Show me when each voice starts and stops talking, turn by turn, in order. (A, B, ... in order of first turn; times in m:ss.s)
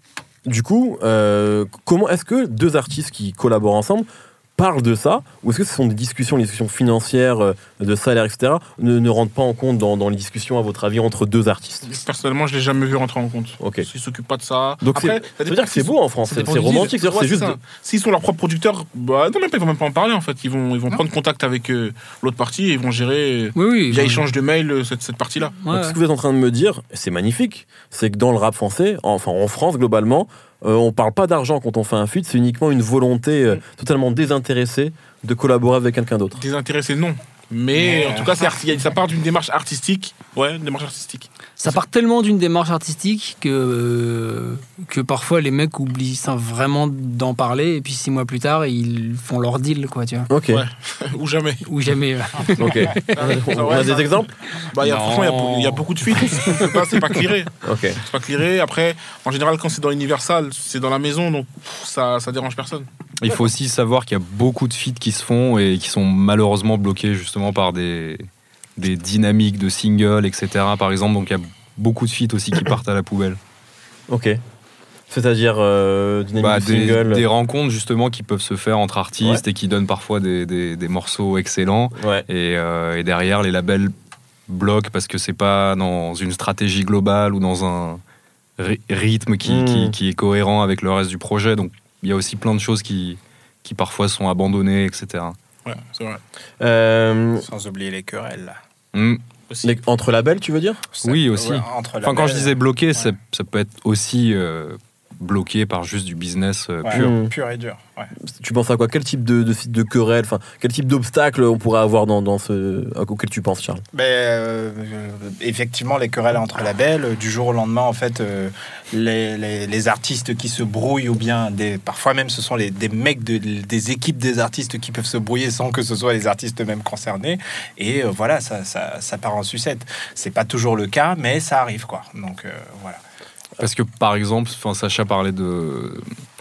0:00.4-0:11.9 A
0:11.8-0:25.6 B
0:13.6-0:13.9 A
0:14.8-0:17.6 A
0:16.4-0:16.9 C
0:23.5-0:24.2 C
0:25.6-0:26.0 C
0:25.7-0:36.4 A
0:36.4-0:41.8 B
0:37.8-0:38.6 D
0:41.6-0:50.3 C
0:50.3-0:50.6 A
0:50.5-0:51.6 B
0:51.6-0:53.8 C
0:52.6-0:54.3 A
0:52.6-1:02.9 B
0:54.6-0:57.0 C
0:57.6-0:58.0 A
1:03.2-1:13.4 E
1:14.1-1:14.4 A
1:15.1-1:17.2 A
1:16.4-1:23.9 E
1:22.0-1:22.2 A
1:24.5-1:28.0 E
1:28.6-1:35.4 E
1:29.4-1:30.0 A
1:35.6-1:36.2 B
1:36.6-1:37.5 A
1:37.4-1:38.6 D
1:38.9-1:39.2 E
1:39.6-1:40.8 A
1:40.9-1:43.1 D
1:41.0-1:47.1 E
1:46.8-1:48.1 D
1:46.9-1:47.3 A
1:48.2-1:53.8 A
1:53.9-2:13.0 D
2:13.6-2:16.1 E